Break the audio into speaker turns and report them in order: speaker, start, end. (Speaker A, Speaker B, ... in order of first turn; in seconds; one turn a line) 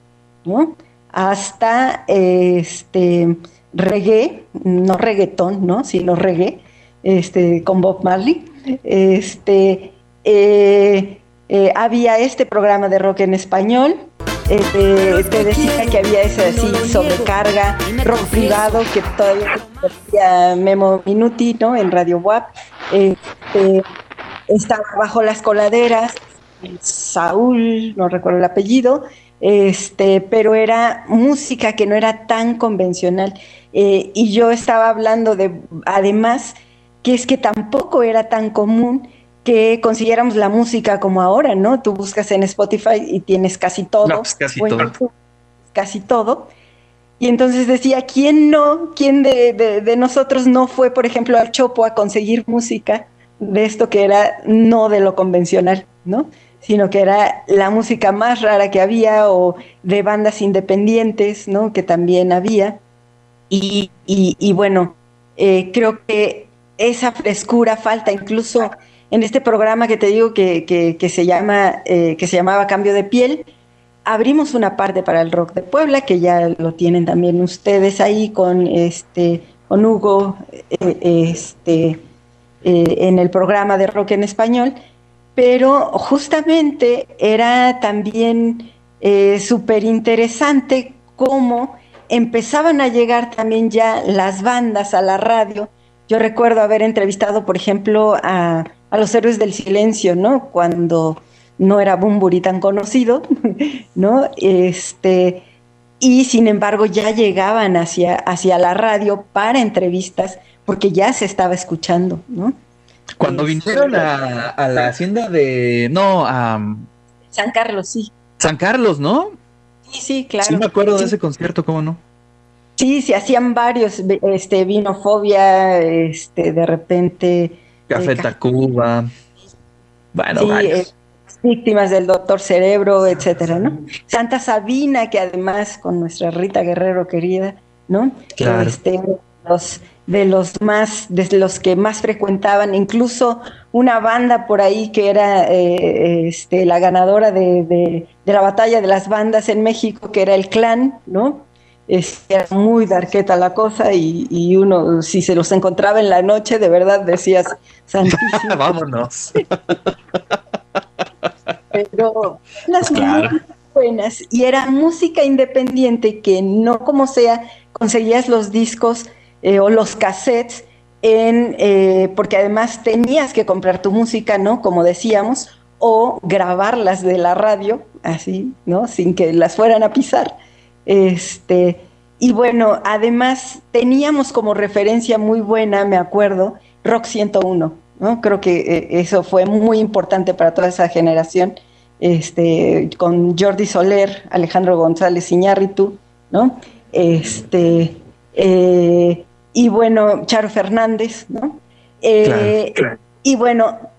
Speaker A: 0.4-23.8
Speaker A: 24.5-45.1
Speaker B: 44.0-44.9
Speaker A: 45.7-46.5
Speaker A: 47.2-62.8
Speaker A: 63.5-73.5
Speaker A: 74.0-82.0
Speaker A: 82.6-84.8
Speaker A: 85.3-105.4
Speaker A: 106.0-112.5
Speaker B: 113.2-116.9
Speaker A: 113.2-114.1
Speaker A: 117.3-118.1
Speaker B: 118.4-119.4
Speaker A: 119.9-121.1
Speaker B: 120.4-122.0
Speaker A: 122.8-128.3
Speaker B: 127.9-129.1
Speaker B: 130.1-130.9
Speaker A: 130.3-158.7
Speaker B: 138.4-138.8
Speaker B: 158.1-159.7
Speaker A: 161.7-180.3
Speaker B: 162.8-163.3
Speaker A: 180.8-203.8
Speaker B: 202.2-202.9